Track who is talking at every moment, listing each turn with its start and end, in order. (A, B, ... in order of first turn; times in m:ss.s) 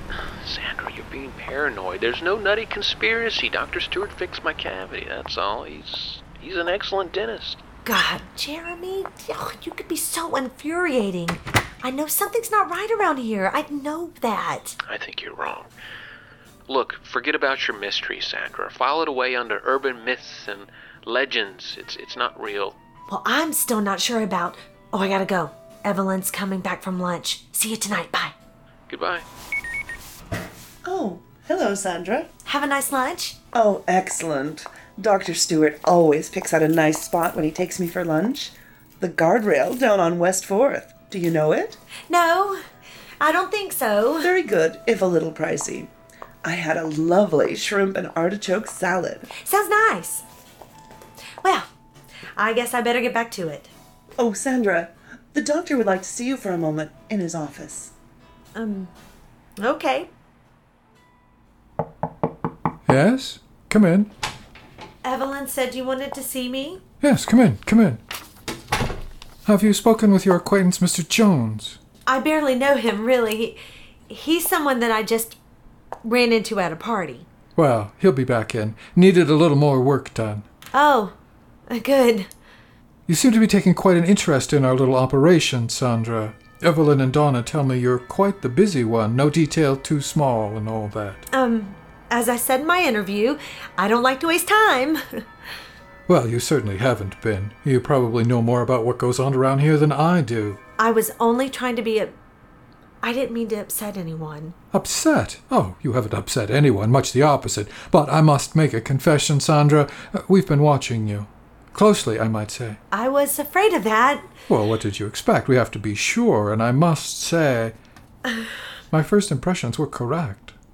0:00.1-0:07.6 A
0:07.8-0:14.8 B
0:14.8-0:15.7 A
0:16.7-0:22.8 A
0:23.1-0:28.3 B
0:28.9-0:29.3 A
0:30.8-0:32.3 C
0:32.5-0:33.4 B
0:33.5-0:41.8 C
0:42.1-0:42.6 B
0:43.2-0:44.3 B
0:44.2-0:45.9 C
0:46.4-0:49.3 C
0:49.4-0:50.2 B
0:52.4-0:53.7 B
0:54.2-0:57.9 C
0:58.6-0:58.9 B
0:59.6-1:00.1 B
1:02.9-1:04.1 D
1:05.0-1:06.8 B
1:07.0-1:08.0 D
1:09.4-1:11.8 D
1:12.1-1:13.6 B
1:14.1-1:15.4 B
1:16.0-1:17.3 B
1:17.6-1:20.5 D
1:20.7-1:21.2 B
1:21.7-1:22.3 B
1:23.1-1:31.2 D
1:31.3-1:35.2 B
1:36.1-1:40.6 D
1:40.8-1:42.2 B
1:43.0-1:44.6 B
1:44.7-1:52.8 D
1:52.9-1:54.3 B
1:54.5-1:57.8 D
1:58.9-2:00.6 D